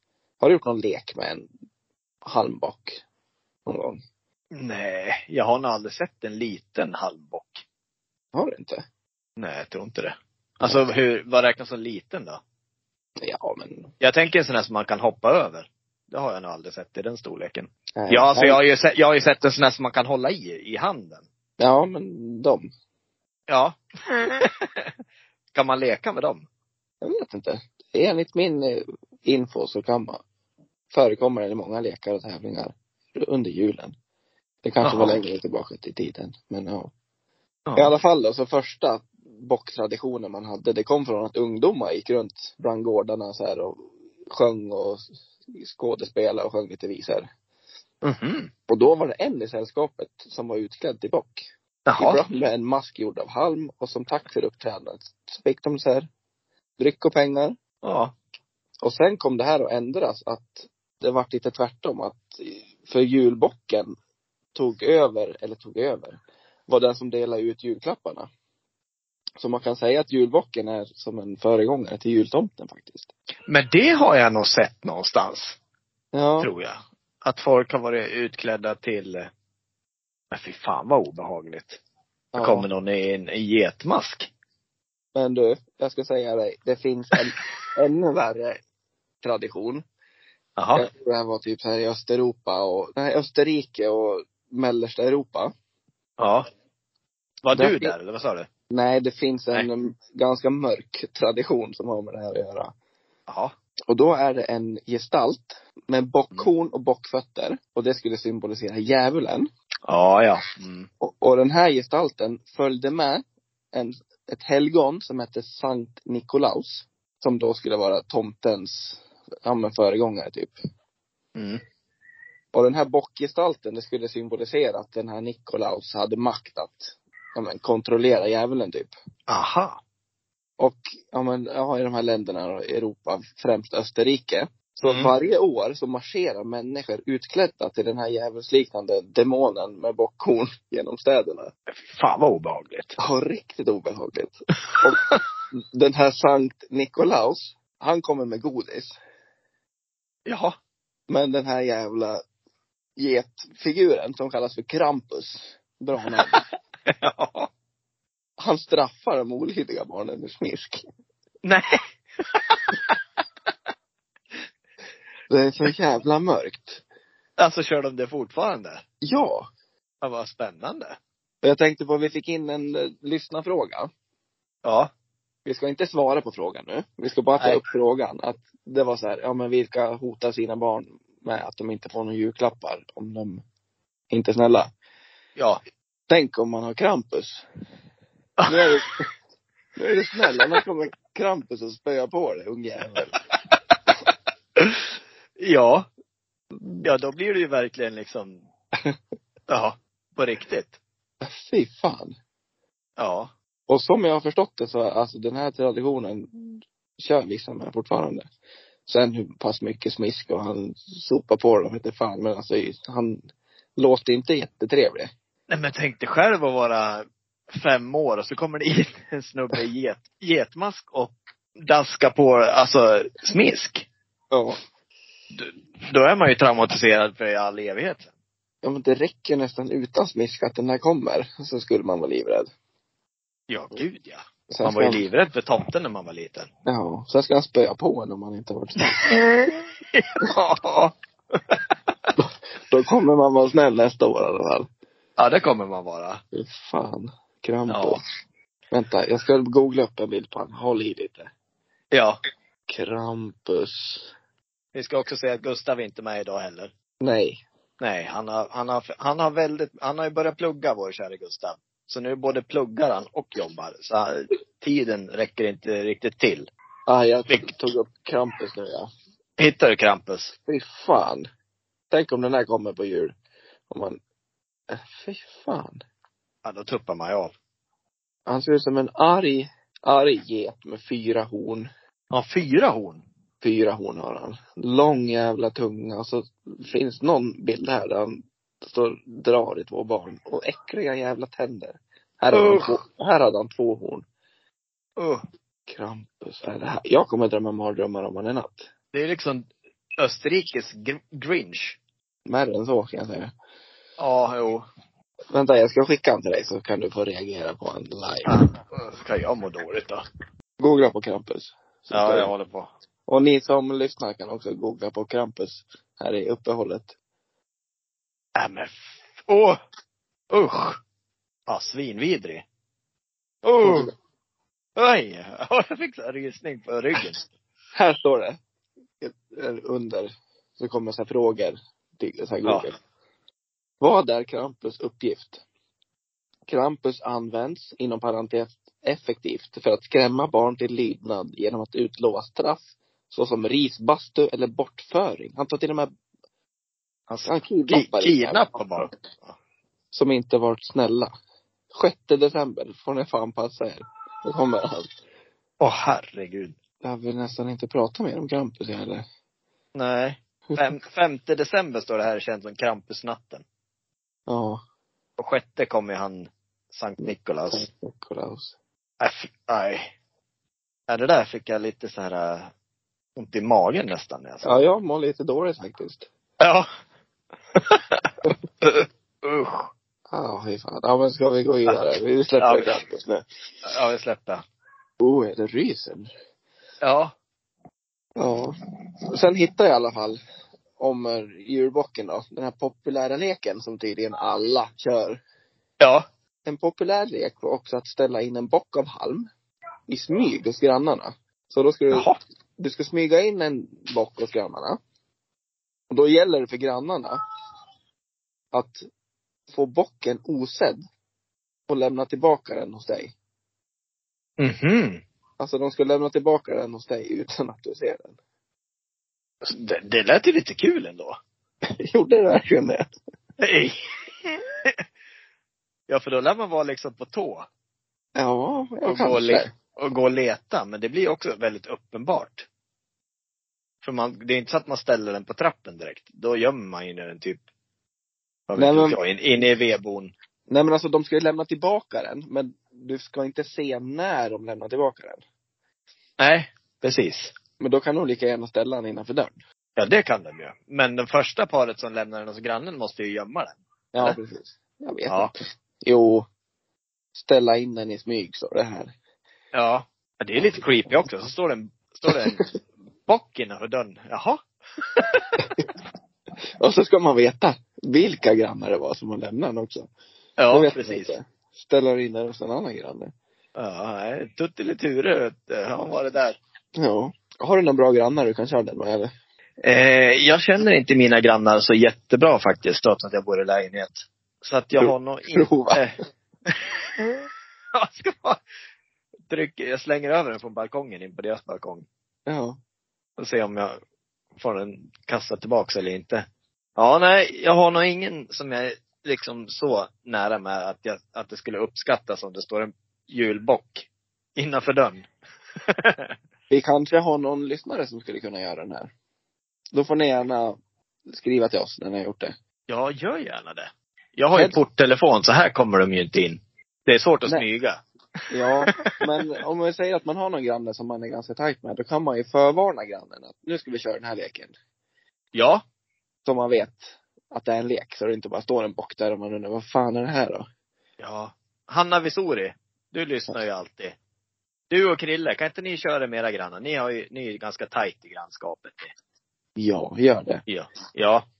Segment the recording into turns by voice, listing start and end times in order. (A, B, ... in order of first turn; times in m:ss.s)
0:00.4-0:01.5 A
0:02.2-0:03.0 A
0:03.6-0:04.0 A
0:04.5-0:07.6 B
0:08.3-0:08.8 A
0:09.4-0:12.4 B
0:13.2-0:13.9 A
0:14.0-0:21.2 B
0:18.0-0:18.6 A
0:21.6-0:22.7 A
0:23.5-0:24.9 B
0:25.5-0:26.4 B
0:27.0-0:30.2 A
0:30.9-0:33.9 A
0:34.6-0:36.9 A
0:34.8-0:35.2 B
0:37.7-0:38.0 B
0:37.8-0:47.3 A
0:48.0-0:48.5 B
0:48.7-0:51.4 A
0:51.8-0:52.2 B
0:52.0-0:56.0 A
0:56.8-0:57.6 A
0:57.8-0:58.1 B
0:58.8-1:03.9 A
1:04.5-1:08.3 A
1:09.4-1:13.1 A
1:13.5-1:15.6 B
1:16.1-1:16.5 A
1:16.4-1:19.3 B
1:20.3-1:21.8 B
1:22.3-1:22.7 A
1:22.4-1:24.3 B
1:25.1-1:28.6 A
1:29.2-1:29.8 A
1:30.6-1:30.8 B
1:30.7-1:35.5 A
1:36.2-1:36.4 B
1:37.4-1:38.5 B
1:37.5-1:37.9 A
1:38.7-1:42.7 A
1:43.3-1:43.5 B
1:43.9-1:49.5 A
1:49.9-1:50.9 B
1:51.0-2:00.5 A
2:01.4-2:01.6 B
2:02.5-2:08.9 A
2:09.3-2:09.8 B
2:10.6-2:21.5 A
2:14.8-2:15.1 B
2:21.8-2:23.0 B
2:23.0-2:29.0 A
2:24.8-2:25.2 B
2:30.2-2:30.6 B
2:31.1-2:32.2 A
2:33.0-2:36.4 A
2:36.9-2:37.5 B
2:38.4-2:40.8 A
2:41.4-2:41.8 B
2:42.3-2:43.0 B
2:45.3-2:46.8 A
2:47.4-2:48.8 B
2:49.0-2:49.5 A
2:50.0-2:51.0 B
2:51.4-2:53.9 A
2:54.6-2:54.9 B
2:55.4-3:03.4 A
3:04.1-3:04.7 A
3:06.1-3:07.4 A
3:08.4-3:08.7 B
3:08.5-3:09.0 A
3:09.8-3:13.2 A
3:14.6-3:14.8 B
3:15.4-3:15.9 B
3:16.8-3:18.4 B
3:19.5-3:20.8 B
3:21.2-3:22.1 A
3:23.0-3:23.3 B
3:23.7-3:28.2 A
3:28.8-3:33.2 A
3:33.8-3:35.1 A
3:35.5-3:43.9 B
3:44.3-3:44.6 A
3:45.3-3:48.1 B
3:48.6-3:52.5 A
3:53.5-3:56.5 B
3:54.5-3:55.0 A
3:56.6-3:59.2 A
3:59.0-4:01.6 B
4:02.2-4:04.7 A
4:05.2-4:06.2 B
4:06.3-4:08.0 A
4:07.7-4:08.0 B
4:08.7-4:11.3 A
4:11.9-4:12.2 B
4:12.7-4:14.1 A
4:14.7-4:16.7 B
4:17.0-4:17.4 A
4:17.8-4:26.5 B
4:26.9-4:28.9 A
4:29.4-4:30.3 B
4:30.4-4:31.3 A
4:31.9-4:33.1 A
4:33.7-4:34.0 A
4:34.7-4:35.8 A
4:36.4-4:37.3 B
4:38.3-4:41.7 A
4:42.1-4:43.0 B
4:43.4-4:54.0 A
4:52.3-4:52.8 B
4:55.0-4:55.2 B
4:55.7-4:58.7 A
4:58.9-4:59.5 B
5:00.0-5:01.8 B
5:02.2-5:03.3 A
5:04.0-5:04.6 B
5:05.3-5:08.4 A
5:08.2-5:10.0 B
5:10.6-5:12.3 A
5:11.9-5:12.7 B
5:13.1-5:16.9 A
5:18.4-5:19.6 B
5:20.3-5:20.8 B
5:21.5-5:22.4 B
5:23.4-5:23.9 B
5:23.6-5:23.9 A
5:24.8-5:27.2 B
5:27.7-5:28.4 A
5:29.0-5:32.7 A
5:32.4-5:32.7 B
5:33.8-5:35.4 A
5:36.5-5:45.9 A
5:47.1-5:49.3 B
5:47.2-5:48.9 A
5:49.9-5:51.1 A
5:51.7-5:54.9 A
5:55.6-5:56.6 B
5:56.8-5:59.0 A
5:59.7-6:03.4 B
6:04.3-6:04.6 A
6:05.2-6:07.6 B
6:07.0-6:08.5 A
6:09.0-6:09.9 B
6:10.9-6:12.5 B
6:13.2-6:14.6 B
6:14.4-6:16.1 A
6:16.4-6:16.7 B
6:17.6-6:18.1 B
6:18.6-6:19.7 B
6:20.1-6:23.2 A
6:22.4-6:22.8 B
6:23.6-6:24.4 B
6:25.0-6:26.1 A
6:26.8-6:27.1 B
6:28.2-6:28.5 A
6:29.1-6:30.2 A
6:30.8-6:35.2 A
6:35.8-6:36.0 B
6:36.4-6:39.3 A
6:39.9-6:44.8 A
6:41.9-6:42.2 B
6:45.9-6:47.2 A
6:48.5-6:48.8 A
6:49.5-6:50.8 A
6:51.7-6:53.1 A
6:54.4-6:55.0 B
6:55.4-6:58.2 A
6:59.4-7:01.2 B
7:01.9-7:02.8 A
7:03.4-7:04.8 B
7:05.9-7:07.5 B
7:08.2-7:09.5 A
7:08.8-7:12.4 B
7:13.8-7:17.4 B
7:18.5-7:20.1 B
7:18.6-7:19.0 A
7:20.5-7:25.2 A
7:26.2-7:27.3 B
7:27.6-7:29.4 A
7:29.8-7:34.2 B
7:33.9-7:36.2 A
7:37.1-7:38.9 A
7:39.5-7:42.5 B
7:43.1-7:44.4 B
7:45.0-7:45.2 B
7:46.6-7:49.9 A
7:50.4-7:51.2 B
7:50.5-7:53.1 A
7:53.6-7:56.4 B
7:56.8-7:59.1 A
7:59.6-8:07.2 B
8:04.8-8:05.8 A
8:07.7-8:08.4 B
8:09.3-8:11.8 B
8:12.2-8:12.6 A
8:13.2-8:13.8 B
8:14.4-8:16.2 B
8:16.8-8:25.1 B
8:25.8-8:26.1 B
8:26.5-8:28.9 A
8:29.7-8:30.6 A
8:31.1-8:32.3 A
8:32.7-8:37.8 B
8:34.3-8:34.6 A
8:38.3-8:44.5 A
8:45.3-8:45.6 B
8:46.2-8:50.5 A
8:51.0-8:54.0 B
8:54.7-8:58.9 B
8:59.6-9:00.4 A
9:00.5-9:01.2 B